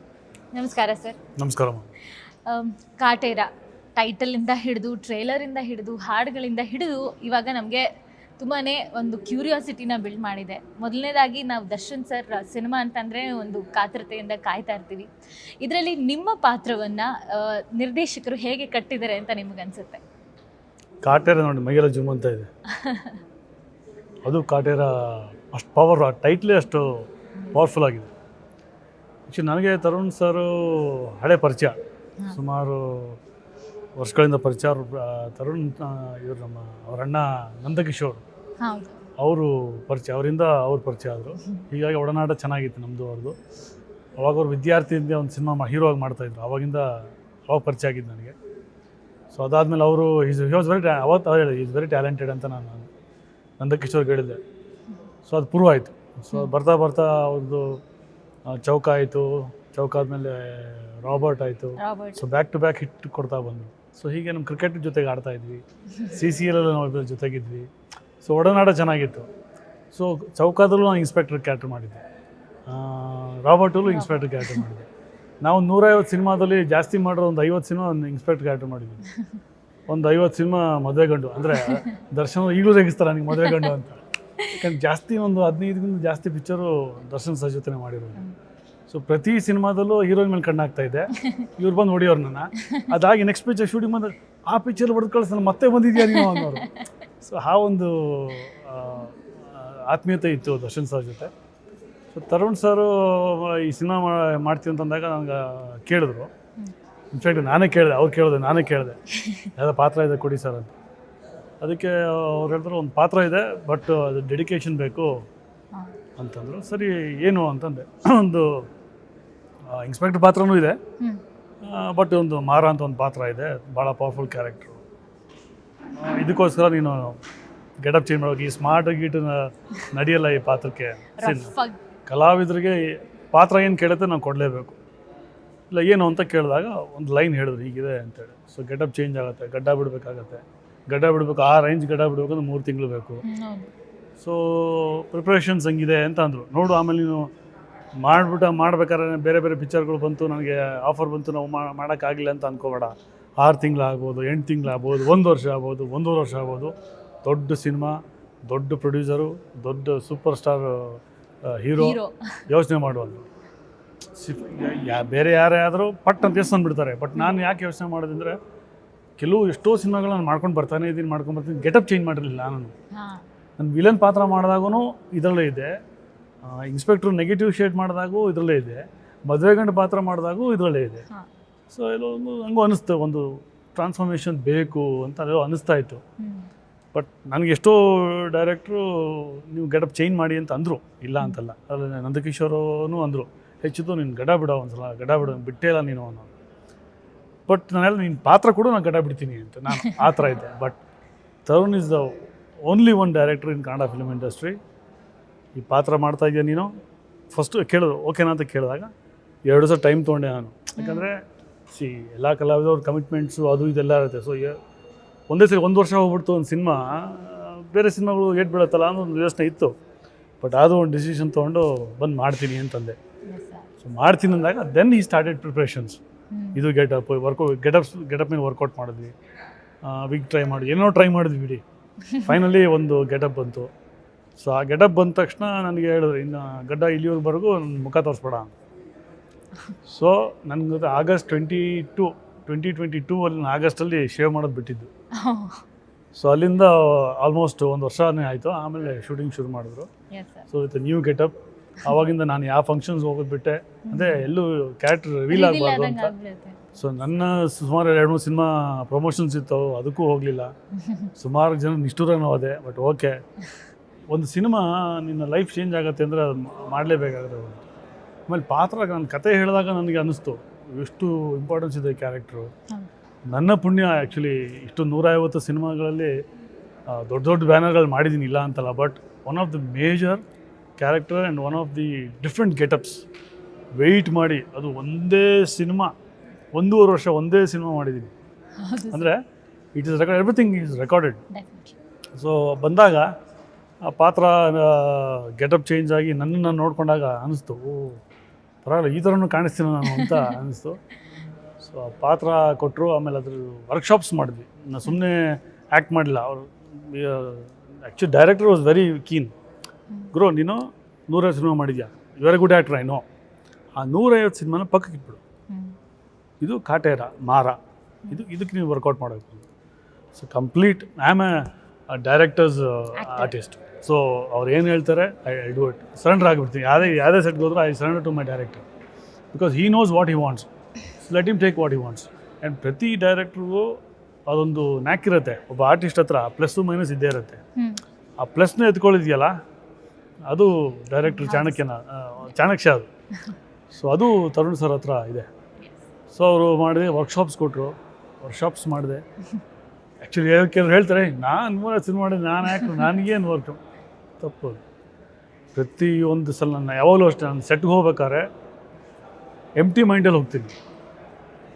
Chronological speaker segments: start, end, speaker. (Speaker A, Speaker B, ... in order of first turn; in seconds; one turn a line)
Speaker A: 0.5-1.2
Speaker B: 1.4-1.9
Speaker A: 2.5-7.9
Speaker A: 8.4-15.1
Speaker A: 15.6-20.0
Speaker B: 21.0-22.5
Speaker A: 22.7-23.2
Speaker B: 24.2-28.1
Speaker B: 29.3-31.8
Speaker B: 32.3-33.2
Speaker B: 34.0-38.2
Speaker A: 38.6-39.0
Speaker B: 39.2-43.4
Speaker B: 44.2-46.9
Speaker B: 47.5-48.3
Speaker B: 49.3-52.9
Speaker B: 53.6-54.4
Speaker B: 55.2-57.8
Speaker B: 58.5-67.7
Speaker A: 61.8-62.2
Speaker B: 68.2-69.3
Speaker B: 69.9-72.0
Speaker B: 72.7-74.9
Speaker A: 73.8-74.6
Speaker B: 75.4-79.0
Speaker B: 79.9-88.2
Speaker A: 83.4-83.7
Speaker B: 88.9-96.7
Speaker A: 91.2-91.5
Speaker A: 92.6-92.9
Speaker A: 96.0-96.9
Speaker B: 97.2-101.3
Speaker B: 102.1-106.3
Speaker B: 107.1-109.0
Speaker A: 109.2-109.5
Speaker B: 109.5-110.7
Speaker B: 111.6-115.2
Speaker B: 116.2-118.7
Speaker B: 119.7-120.8
Speaker B: 121.6-124.8
Speaker B: 126.0-127.2
Speaker B: 127.8-131.5
Speaker A: 131.2-131.8
Speaker B: 132.1-134.8
Speaker B: 135.7-143.2
Speaker A: 143.2-143.7
Speaker B: 144.2-147.3
Speaker B: 148.0-163.2
Speaker A: 161.8-162.1
Speaker B: 164.2-168.4
Speaker B: 169.2-172.7
Speaker A: 172.9-173.2
Speaker B: 173.6-175.7
Speaker B: 176.4-181.0
Speaker B: 181.7-186.0
Speaker A: 186.2-186.5
Speaker B: 186.9-196.3
Speaker B: 197.5-200.8
Speaker A: 199.7-200.3
Speaker B: 201.4-202.1
Speaker B: 202.7-204.6
Speaker B: 205.5-206.7
Speaker B: 207.3-208.9
Speaker B: 209.4-214.6
Speaker A: 210.8-211.1
Speaker B: 215.3-219.7
Speaker B: 220.4-223.0
Speaker A: 223.3-223.7
Speaker B: 223.8-226.0
Speaker A: 226.3-226.6
Speaker B: 226.5-229.1
Speaker B: 229.8-231.6
Speaker B: 232.2-233.7
Speaker B: 234.4-238.5
Speaker B: 239.8-244.9
Speaker A: 245.2-245.6
Speaker B: 246.1-249.9
Speaker A: 250.1-250.4
Speaker B: 250.5-256.1
Speaker A: 253.9-254.3
Speaker A: 255.3-256.6
Speaker B: 256.8-260.5
Speaker A: 260.8-261.1
Speaker B: 261.2-263.1
Speaker B: 264.1-267.6
Speaker B: 268.3-272.5
Speaker B: 273.3-276.1
Speaker B: 276.9-280.2
Speaker B: 280.8-283.0
Speaker B: 283.8-285.9
Speaker B: 286.5-288.1
Speaker A: 288.6-289.1
Speaker B: 288.9-289.2
Speaker B: 289.7-291.2
Speaker A: 291.3-291.8
Speaker B: 292.1-293.1
Speaker B: 293.8-298.0
Speaker B: 298.6-300.8
Speaker A: 299.9-300.4
Speaker B: 301.6-309.3
Speaker B: 310.1-313.0
Speaker B: 313.8-315.2
Speaker A: 315.5-315.7
Speaker B: 316.4-317.6
Speaker B: 318.1-319.4
Speaker B: 320.1-328.6
Speaker A: 323.0-323.3
Speaker B: 329.3-330.5
Speaker B: 331.0-337.4
Speaker B: 338.2-339.3
Speaker B: 340.3-342.9
Speaker A: 341.0-341.6
Speaker B: 343.7-345.3
Speaker B: 346.1-349.0
Speaker B: 350.0-353.6
Speaker B: 354.2-354.6
Speaker B: 355.5-358.3
Speaker B: 359.6-360.6